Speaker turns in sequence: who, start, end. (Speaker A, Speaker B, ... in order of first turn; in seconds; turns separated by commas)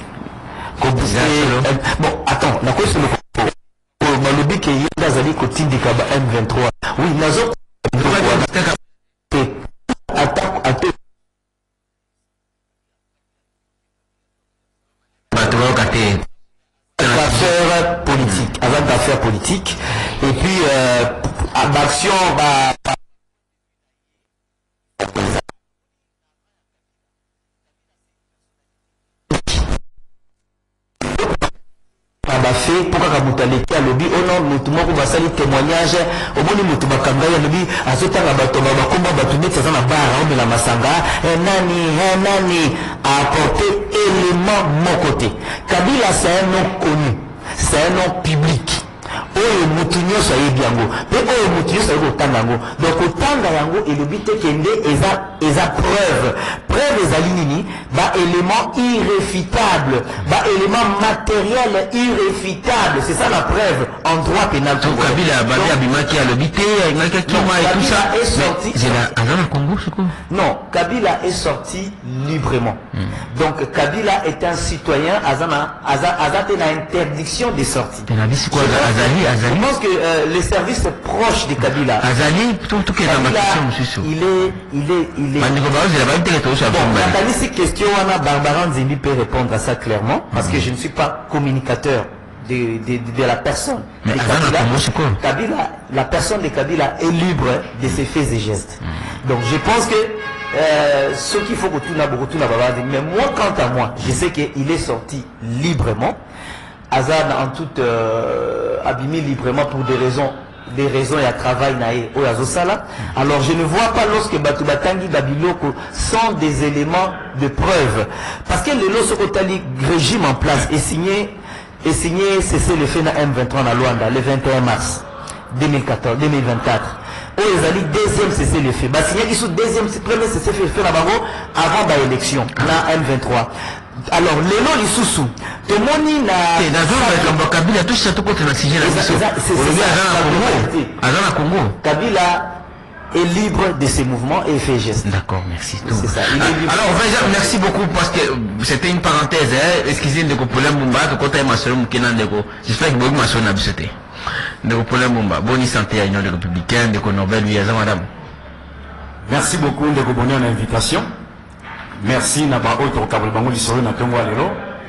Speaker A: 0.8-8.5, Speaker B: 1.0-1.6, Speaker B: 8.0-8.8, Speaker A: 9.3-10.9, Speaker B: 15.3-16.2, Speaker A: 17.0-23.0, Speaker B: 17.0-17.5, Speaker A: 25.0-25.4, Speaker A: 29.3-29.7, Speaker A: 31.1-31.4, Speaker A: 32.2-48.8, Speaker A: 49.3-65.8, Speaker B: 64.8-70.2, Speaker A: 67.2-69.0, Speaker A: 70.3-82.1, Speaker B: 78.1-79.7, Speaker B: 82.0-84.1, Speaker A: 83.0-85.5, Speaker B: 85.4-87.2, Speaker A: 86.7-106.2, Speaker B: 90.3-90.6, Speaker B: 94.0-95.2, Speaker A: 106.9-133.5, Speaker A: 134.1-137.3, Speaker B: 136.6-141.8, Speaker A: 138.8-140.9, Speaker A: 141.8-142.6, Speaker A: 143.1-145.0, Speaker B: 145.0-153.9, Speaker A: 145.8-147.5, Speaker B: 154.6-158.1, Speaker C: 159.2-161.1, Speaker C: 162.0-164.7